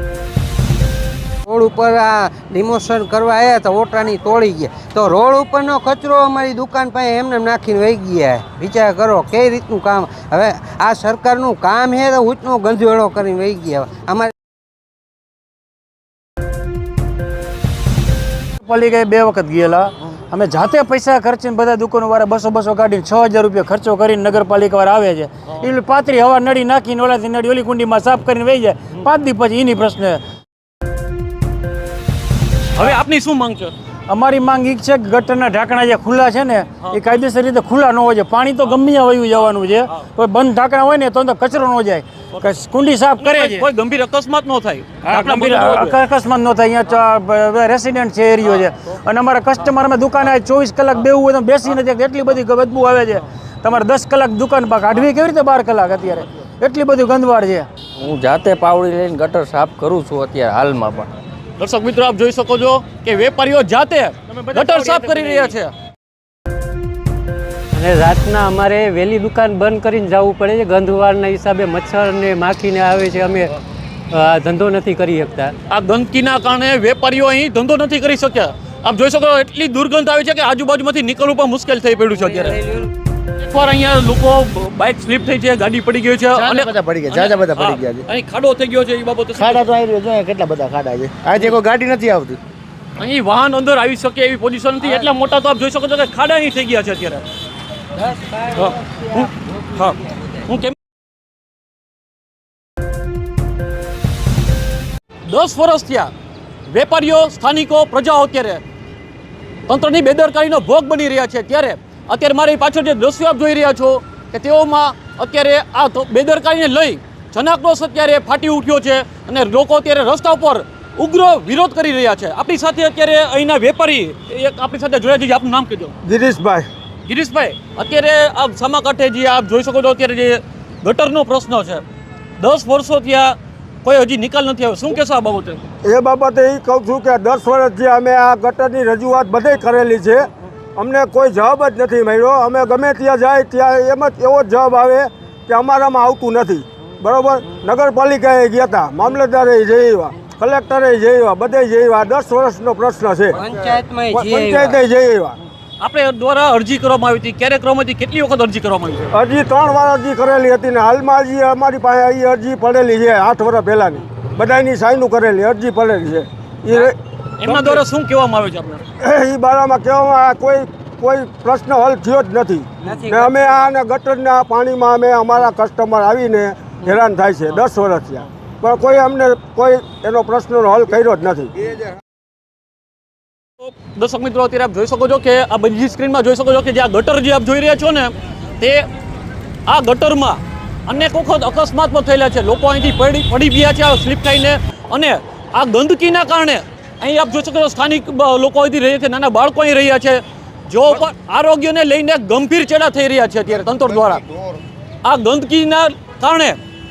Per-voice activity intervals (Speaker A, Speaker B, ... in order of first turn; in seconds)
Speaker A: 1.5-14.3, 82.4-82.8, 98.0-98.5, 153.3-154.8, 172.8-173.7
Speaker B: 18.6-30.2, 34.1-43.7, 45.0-57.7, 64.4-65.5
Speaker C: 32.8-33.7, 43.2-46.0, 61.6-65.7, 75.7-82.6, 83.4-89.7, 93.0-97.2, 98.5-100.8, 105.3-106.1, 106.7-108.6, 109.7-126.0, 127.1-131.8, 132.4-135.6, 155.8-159.1, 167.4-168.8, 183.6-188.9, 189.7-204.2, 205.0-206.6
Speaker D: 58.0-61.1
Speaker E: 67.8-73.6, 74.1-75.5
Speaker F: 86.3-88.0, 89.3-92.4
Speaker G: 126.0-126.7, 135.8-153.4, 154.1-155.4, 159.1-166.9, 167.5-167.8, 169.0-181.5